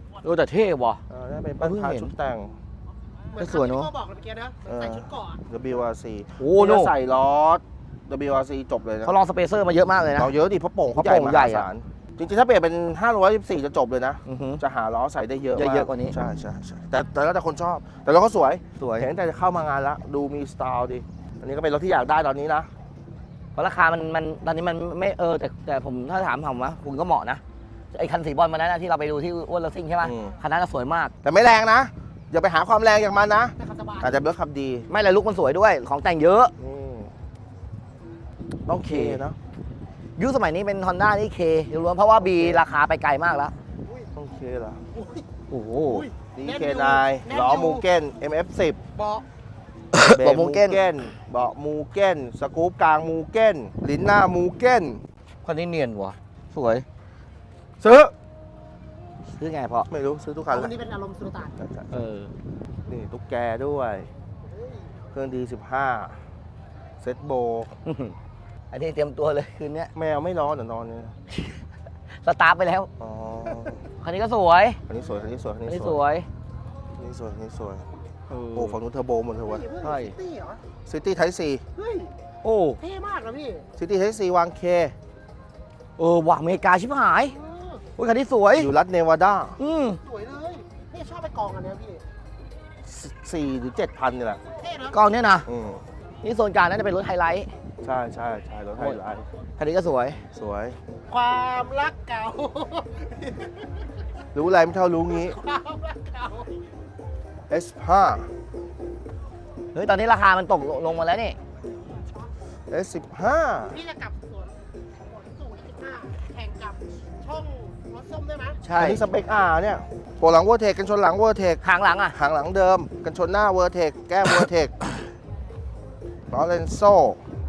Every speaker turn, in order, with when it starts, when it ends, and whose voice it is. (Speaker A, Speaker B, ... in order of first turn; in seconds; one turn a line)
Speaker A: 0.2-1.0
Speaker B: 1.1-2.5
Speaker A: 1.6-2.1
Speaker C: 3.3-5.4
Speaker A: 3.4-3.9
Speaker B: 4.7-9.1
Speaker A: 6.4-6.9
Speaker A: 9.0-10.3
Speaker B: 10.2-22.7
Speaker A: 10.9-11.7
Speaker A: 14.2-14.6
Speaker A: 15.5-16.1
Speaker A: 18.8-19.1
Speaker A: 23.6-27.4
Speaker A: 27.9-31.1
Speaker B: 30.0-30.3
Speaker B: 31.2-34.9
Speaker C: 33.6-34.3
Speaker A: 34.9-36.5
Speaker B: 36.6-37.1
Speaker B: 38.7-39.4
Speaker A: 38.7-39.2
Speaker A: 40.2-43.5
Speaker B: 42.2-42.6
Speaker B: 44.1-44.8
Speaker C: 44.9-45.2
Speaker A: 45.5-46.1
Speaker C: 45.9-47.8
Speaker B: 46.3-48.8
Speaker C: 49.0-49.2
Speaker A: 49.9-50.8
Speaker B: 50.1-55.0
Speaker A: 55.4-56.9
Speaker B: 57.8-58.1
Speaker A: 59.4-59.9
Speaker B: 59.9-60.7
Speaker C: 60.5-61.5
Speaker B: 61.6-61.9
Speaker A: 61.9-62.3
Speaker B: 62.9-64.1
Speaker C: 64.5-64.8
Speaker B: 65.1-66.1
Speaker B: 67.0-67.7
Speaker A: 67.8-68.1
Speaker A: 68.7-69.9
Speaker B: 69.9-71.1
Speaker A: 72.2-72.9
Speaker B: 73.0-73.8
Speaker A: 74.0-74.8
Speaker B: 74.9-76.0
Speaker A: 75.7-76.2
Speaker B: 77.0-77.8
Speaker A: 78.3-78.8
Speaker B: 78.5-79.6
Speaker C: 79.5-80.6
Speaker A: 79.8-80.1
Speaker B: 80.8-81.6
Speaker C: 81.8-82.1
Speaker A: 82.4-82.8
Speaker C: 82.8-83.7
Speaker B: 83.8-84.9
Speaker A: 86.0-87.3
Speaker C: 87.3-87.8
Speaker A: 88.0-88.7
Speaker B: 88.5-89.6
Speaker A: 89.6-90.0
Speaker C: 90.0-92.0
Speaker B: 92.8-94.4
Speaker C: 94.5-95.0
Speaker A: 94.9-95.5
Speaker B: 95.5-95.8
Speaker A: 96.2-97.5
Speaker B: 97.8-99.2
Speaker A: 99.6-100.2
Speaker B: 100.3-100.8
Speaker C: 101.1-103.5
Speaker B: 104.3-105.4
Speaker C: 105.2-106.6
Speaker B: 107.5-108.3
Speaker A: 109.7-111.3
Speaker B: 112.7-113.7
Speaker C: 113.7-118.6
Speaker A: 118.6-119.0
Speaker B: 118.8-124.7
Speaker A: 121.6-122.1
Speaker B: 126.3-127.2